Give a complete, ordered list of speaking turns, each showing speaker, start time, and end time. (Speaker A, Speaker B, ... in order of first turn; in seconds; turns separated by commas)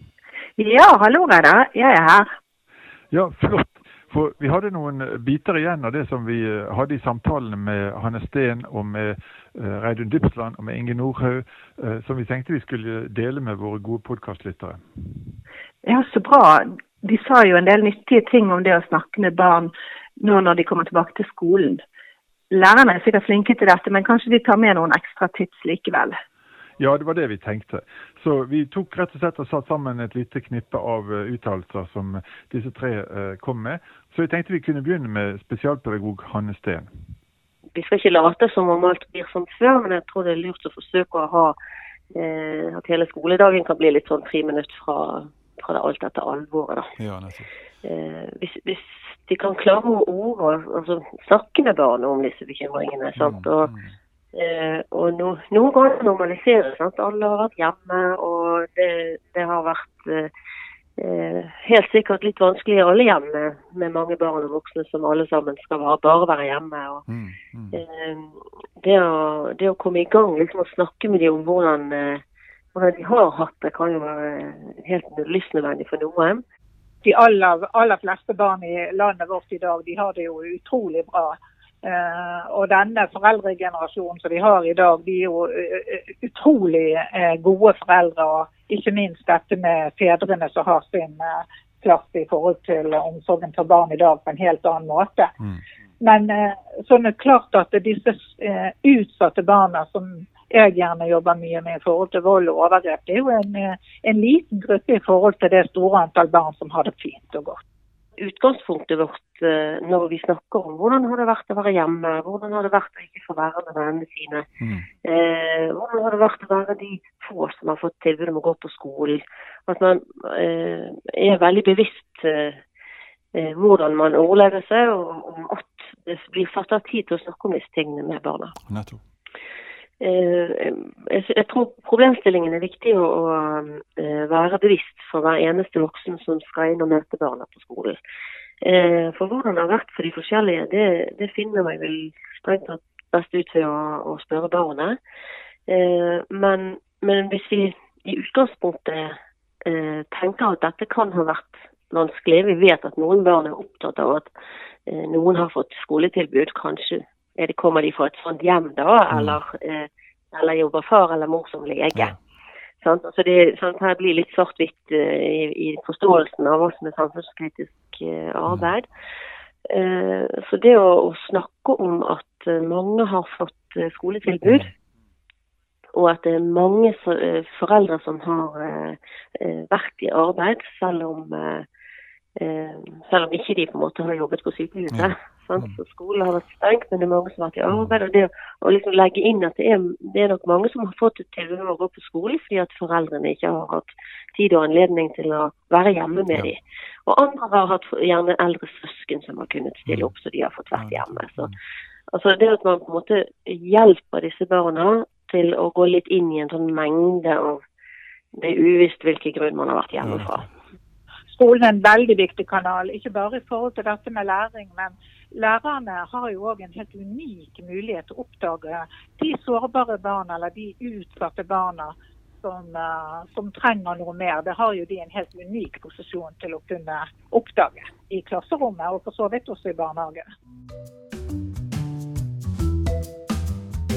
Speaker A: 0.6-2.3, Speaker B: 3.1-14.8, Speaker A: 15.8-21.8, Speaker A: 22.5-26.1, Speaker B: 26.8-36.9, Speaker C: 37.7-41.6, Speaker C: 42.1-46.9, Speaker B: 47.0-47.5, Speaker C: 47.8-53.7, Speaker B: 53.1-53.9, Speaker C: 54.3-60.3, Speaker C: 61.0-67.0, Speaker B: 67.1-67.8, Speaker C: 67.7-72.2, Speaker C: 72.7-76.4, Speaker D: 77.0-95.3, Speaker D: 96.0-107.6, Speaker C: 108.2-114.4, Speaker B: 114.6-114.9, Speaker C: 115.0-122.6, Speaker C: 123.3-128.5, Speaker B: 128.6-129.0, Speaker C: 130.0-138.0, Speaker C: 138.6-145.0, Speaker C: 145.7-154.3, Speaker C: 154.9-162.2, Speaker C: 162.8-168.8, Speaker C: 169.7-174.7, Speaker C: 175.9-181.6, Speaker C: 182.4-201.5, Speaker B: 184.9-185.8, Speaker B: 200.8-201.5, Speaker C: 202.1-207.6, Speaker C: 208.4-210.4, Speaker B: 210.0-210.4, Speaker D: 211.3-230.2